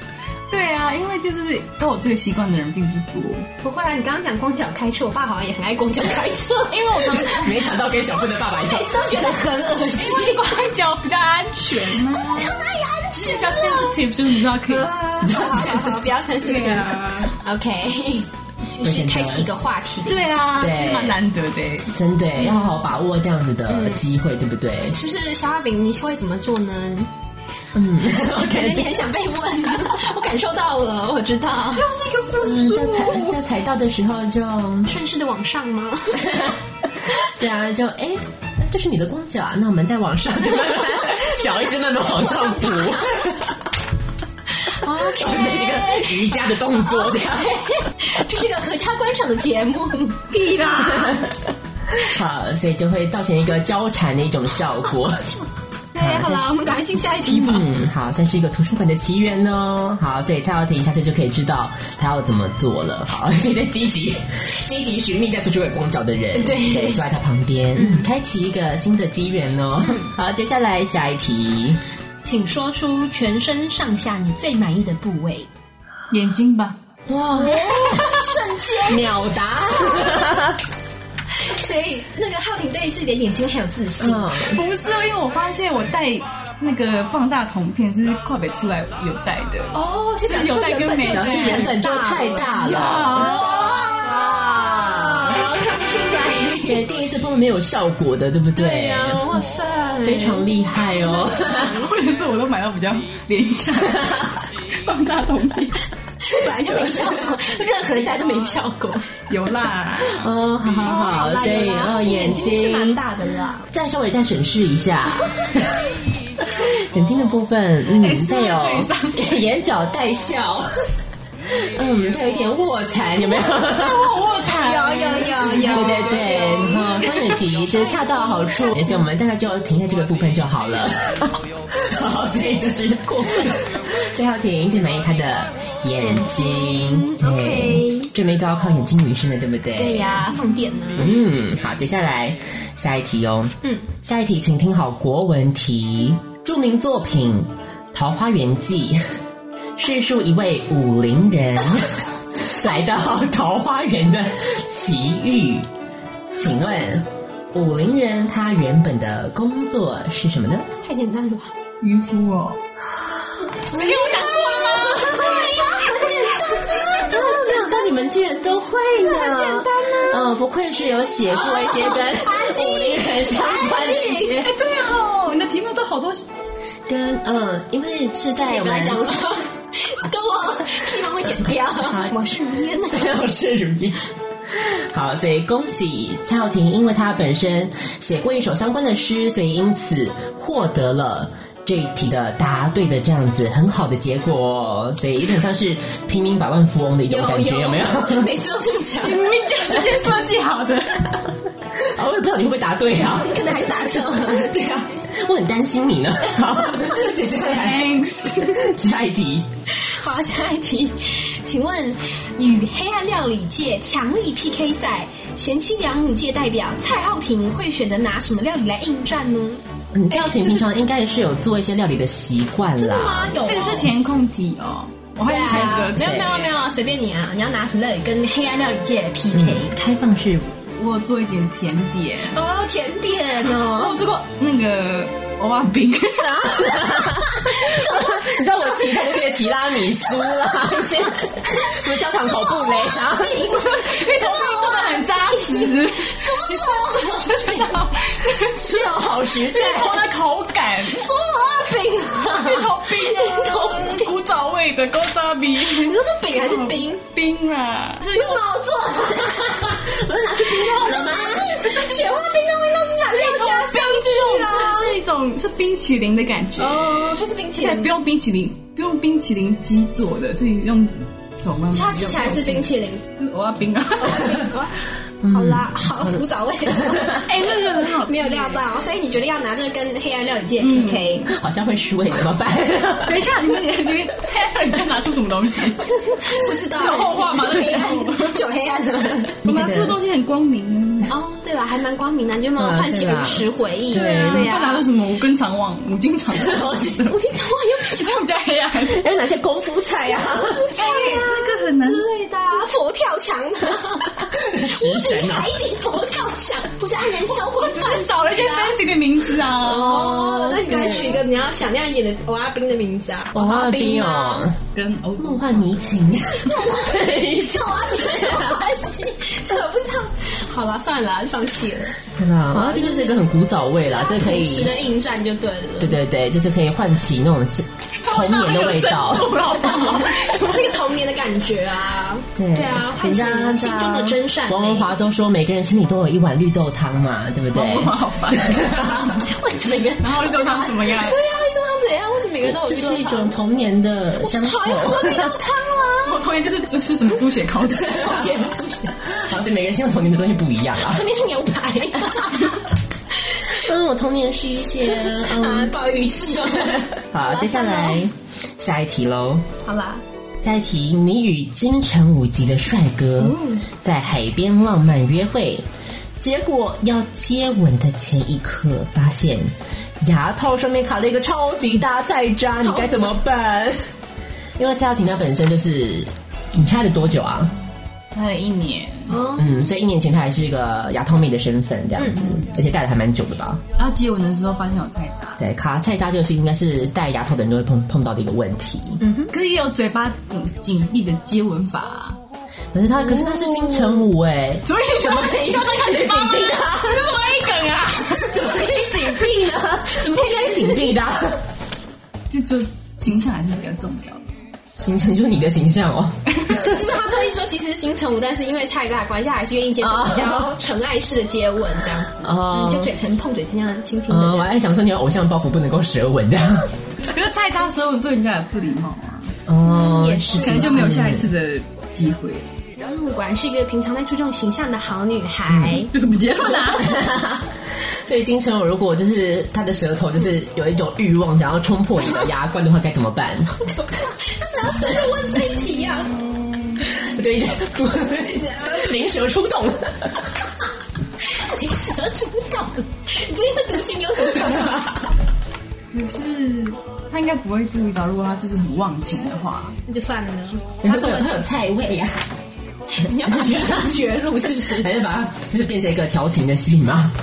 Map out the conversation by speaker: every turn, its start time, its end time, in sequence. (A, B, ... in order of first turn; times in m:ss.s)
0:00.5-0:03.5 A
0:03.6-0:07.1 B
0:06.7-0:07.6 A
0:07.2-0:09.4 C
0:08.5-0:10.4 B
0:10.0-0:12.6 A
0:12.0-0:14.0 B
0:13.1-0:14.9 A
0:14.6-0:20.3 B
0:15.4-0:15.7 C
0:16.4-0:17.3 A
0:18.8-0:19.5 C
0:20.1-0:21.9 A
0:20.6-0:21.2 C
0:21.9-0:25.0 C
0:22.4-0:22.8 B
0:23.7-0:24.0 B
0:24.9-0:27.1 B
0:27.7-0:29.0 C
0:28.4-0:31.9 B
0:31.7-0:33.4 A
0:32.4-0:35.0 C
0:34.9-0:36.4 B
0:36.2-0:43.6 C
0:41.1-0:43.0 B
0:44.7-0:46.3 B
0:45.1-0:47.5 C
0:46.9-0:51.2 B
0:50.6-0:55.4 C
0:55.9-0:57.7 B
0:56.0-0:56.6 C
0:57.3-1:11.8 C
1:06.3-1:07.0 B
1:07.8-1:08.1 B
1:12.2-1:15.5 B
1:16.1-1:16.8 A
1:17.1-1:20.6 C
1:17.4-1:19.2 B
1:19.8-1:20.1 B
1:21.4-1:24.3 B
1:24.0-1:24.6 C
1:24.4-1:33.7 A
1:29.7-1:32.5 B
1:31.1-1:33.4 C
1:33.1-1:36.8 B
1:34.0-1:35.4 C
1:36.6-1:39.3 C
1:38.6-1:41.9 B
1:40.0-1:41.8 C
1:41.6-1:45.8 A
1:46.2-1:49.2 B
1:49.3-1:50.3 A
1:50.1-1:53.0 C
1:50.8-1:53.7 B
1:53.7-1:55.8 C
1:56.7-2:00.9 C
1:58.0-1:59.4 A
2:01.6-2:04.0 C
2:03.5-2:06.9 A
2:04.6-2:06.9 B
2:05.6-2:20.3 C
2:16.0-2:18.1 B
2:19.8-2:21.2 B
2:20.9-2:29.0 C
2:29.8-2:32.0 C
2:32.6-2:35.7 C
2:36.4-2:40.7 C
2:40.7-2:41.5 B
2:41.8-2:42.6 A
2:43.7-2:47.9 B
2:43.7-2:46.2 A
2:46.9-2:54.5 C
2:49.0-2:50.4 B
2:51.3-2:54.4 B
2:54.3-2:56.3 A
2:56.9-2:59.0 C
2:58.4-3:03.1 B
3:01.9-3:02.1 C
3:02.9-3:18.3 C
3:17.1-3:19.3 B
3:19.0-3:21.2 A
3:21.8-3:29.5 C
3:23.0-3:24.5 B
3:27.4-3:28.7 A
3:29.8-3:40.6 B
3:39.9-3:43.4 C
3:42.8-3:43.9 B
3:43.4-3:46.4 A
3:45.2-3:49.7 B
3:45.5-3:46.5 C
3:49.3-3:50.6 C
3:50.7-3:52.4 A
3:52.3-3:54.0 B
3:53.6-3:56.7 A
3:56.3-3:58.2 B
3:56.5-4:03.5 C
4:02.3-4:07.8 B
4:03.5-4:11.1 A
4:08.6-4:10.0 C
4:10.8-4:14.1 B
4:12.2-4:18.3 A
4:15.6-4:17.0 B
4:18.0-4:19.9 B
4:19.6-4:21.5 C
4:20.4-4:25.0 B
4:23.1-4:34.4 A
4:26.6-4:27.9 B
4:31.7-4:33.1 B
4:34.0-4:34.7 B
4:35.2-4:37.2 C
4:35.3-4:37.3 B
4:37.1-4:38.7 A
4:37.8-4:41.3 B
4:40.6-4:41.3 A
4:41.3-4:43.3 C
4:43.0-4:48.4 A
4:46.0-4:49.4 B
4:49.4-4:51.1 A
4:49.4-4:50.0 C
4:51.1-4:54.9 B
4:52.6-4:54.5 C
4:53.9-4:57.2 A
4:56.4-4:58.2 B
4:57.8-4:59.0 A
4:58.9-5:00.6 C
5:00.2-5:08.9 B
5:00.7-5:02.1 A
5:04.3-5:05.6 C
5:07.4-5:10.0 A
5:09.6-5:11.2 C
5:09.8-5:14.5 B
5:13.3-5:14.6 C
5:14.7-5:16.1 A
5:15.2-5:18.8 C
5:16.4-5:22.0 B
5:22.2-5:24.8 C
5:22.5-5:23.2 B
5:23.8-5:26.0 B
5:25.8-5:29.5 C
5:28.0-5:30.8 A
5:29.6-5:34.9 B
5:32.4-5:39.1 C
5:37.5-5:39.0 A
5:38.9-5:43.3 B
5:40.0-5:41.2 A
5:42.4-5:45.4 C
5:44.2-5:46.2 B
5:46.0-5:48.3 A
5:48.0-5:48.9 B
5:48.0-5:51.1 C
5:50.8-5:52.6 B
5:53.5-5:55.8 C
5:55.0-5:58.0 B
5:56.6-5:59.5 C
5:59.6-6:00.0 B
6:00.4-6:05.6 C
6:03.2-6:03.6 B
6:06.2-6:13.9 C
6:12.6-6:13.1 B
6:14.6-6:17.5 C
6:18.1-6:19.1 A
6:19.1-6:19.5 B
6:19.4-6:23.6 C
6:22.0-6:22.3 B
6:23.8-6:25.4 A
6:25.4-6:29.0 C
6:29.0-6:29.3 B
6:29.3-6:32.2 A
6:32.7-6:37.1 C
6:33.2-6:33.9 A
6:34.7-6:38.3 A
6:36.0-6:37.8 B
6:38.2-6:41.4 C
6:39.9-6:41.0 B
6:42.3-6:44.3 A
6:44.8-6:46.2 C
6:46.3-6:46.6 A
6:46.6-6:54.5 B
6:49.8-6:50.5 C
6:52.2-6:52.9 C
6:54.1-6:56.7 C
6:57.0-6:59.4 A
6:59.5-7:01.3 C
6:59.6-7:01.0 B
7:00.3-7:02.5 A
7:02.8-7:05.9 B
7:05.5-7:05.8 C
7:05.9-7:07.0 A
7:06.7-7:13.6 C
7:13.6-7:16.3 B
7:16.8-7:20.3 C
7:21.3-7:24.9 B
7:25.9-7:29.8 A
7:29.9-7:31.4 B
7:30.8-7:32.2 C
7:32.9-7:34.9 B
7:33.2-7:34.0 C
7:34.7-7:37.1 C